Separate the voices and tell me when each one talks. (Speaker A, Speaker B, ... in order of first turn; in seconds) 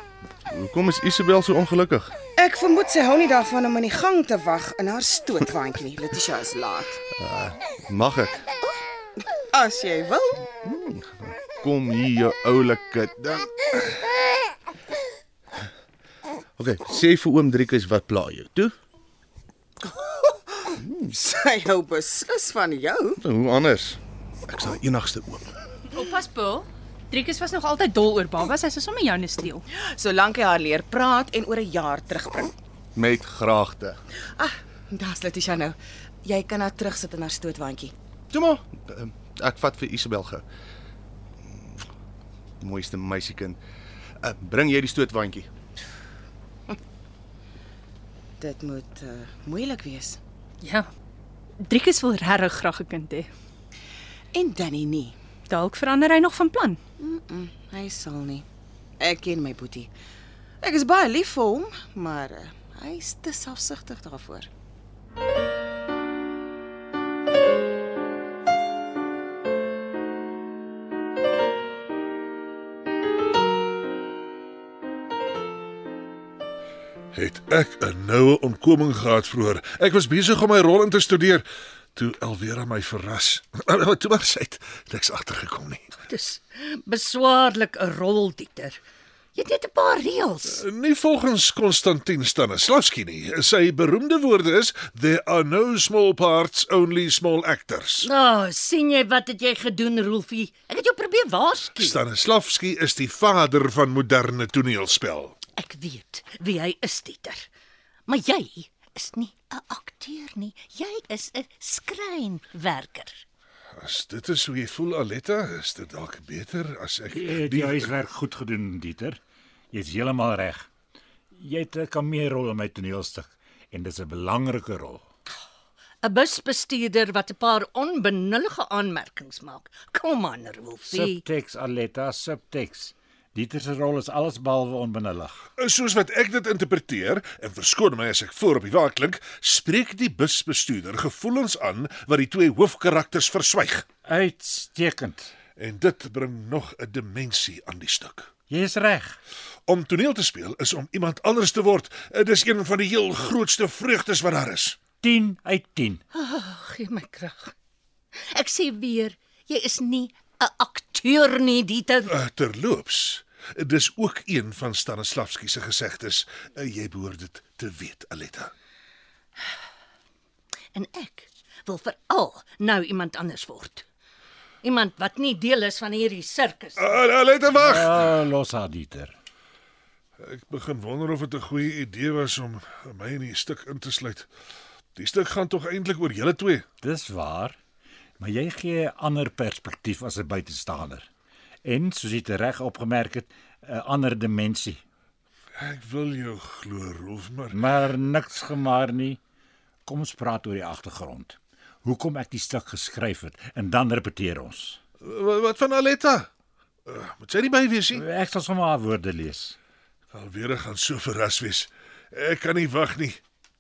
Speaker A: 0.5-2.2, 7.2-8.5, 10.6-13.5, 16.6-18.7, 23.2-25.6, 33.0-34.0, 38.3-40.5, 42.6-43.6, 44.2-45.5
Speaker B: 2.4-7.0, 9.5-10.4, 19.9-23.2, 29.7-32.5, 34.4-37.9, 48.4-50.2, 54.3-55.2, 57.0-58.5, 59.0-59.9, 60.6-64.5
Speaker C: 25.9-29.6, 50.6-50.9, 51.6-53.3, 55.5-56.8
Speaker D: 77.1-81.4, 82.0-85.9, 90.5-98.1, 101.8-105.4, 113.8-117.9, 135.6-143.9, 145.6-148.3, 149.7-154.8, 162.1-168.5, 176.8-178.0, 180.2-184.3, 184.9-186.7, 195.6-197.6, 205.0-206.3, 206.9-208.0, 210.1-213.2
Speaker E: 86.0-88.8, 89.4-90.6, 98.0-102.0, 105.5-107.5, 108.1-113.2, 126.0-131.2, 156.1-157.5, 158.3-162.1, 170.7-173.8, 174.6-176.8
Speaker F: 117.1-119.2, 119.7-120.7, 121.3-125.0, 130.9-135.5, 144.1-145.3, 148.5-149.2, 155.0-156.0, 177.6-179.2, 186.8-187.6, 188.2-191.1, 191.6-194.8, 197.5-199.2, 199.8-204.8, 207.9-209.6